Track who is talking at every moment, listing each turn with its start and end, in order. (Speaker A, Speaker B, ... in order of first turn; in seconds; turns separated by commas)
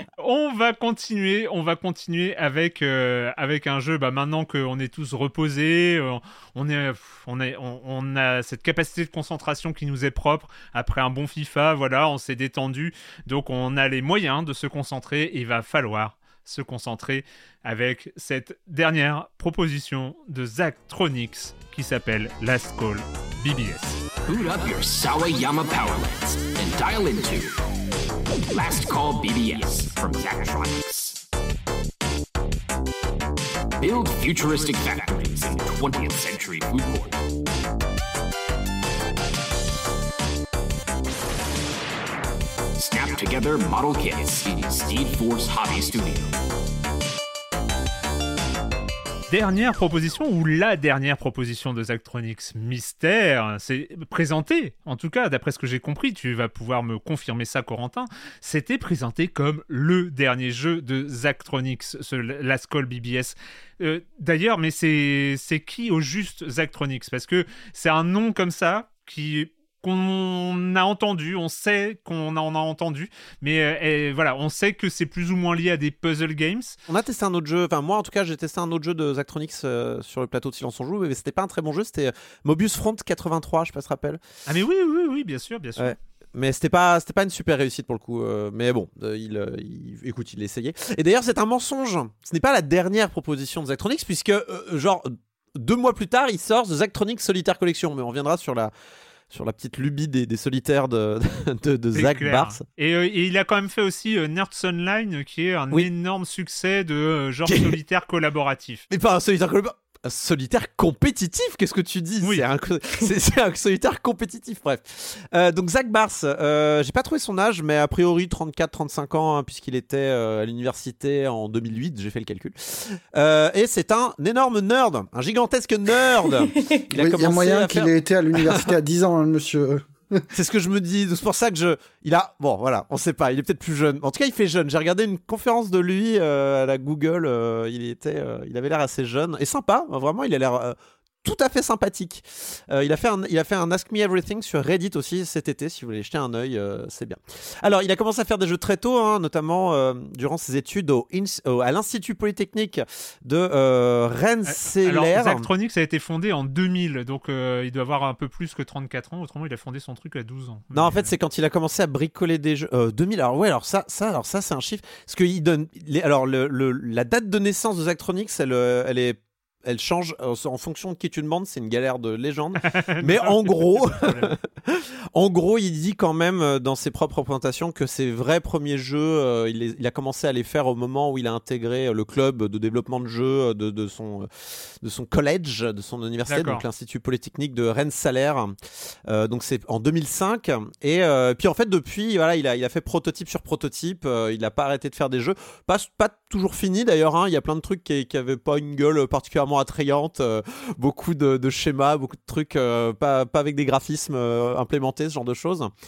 Speaker A: 0.2-24.0, Speaker B: 24.2-27.6, Speaker B: 28.5-31.2, Speaker B: 33.8-37.2, Speaker B: 42.8-46.3, Speaker A: 49.3-76.8, Speaker C: 76.9-84.2, Speaker A: 84.5-86.0, Speaker C: 85.8-98.7, Speaker C: 99.3-102.6, Speaker A: 101.9-108.8, Speaker C: 107.5-107.8, Speaker C: 108.9-128.7, Speaker D: 126.9-130.3, Speaker C: 130.3-155.5, Speaker A: 154.5-161.1, Speaker C: 160.7-184.3, Speaker A: 172.7-174.3, Speaker C: 184.8-188.6, Speaker A: 186.3-186.7, Speaker C: 189.1-205.7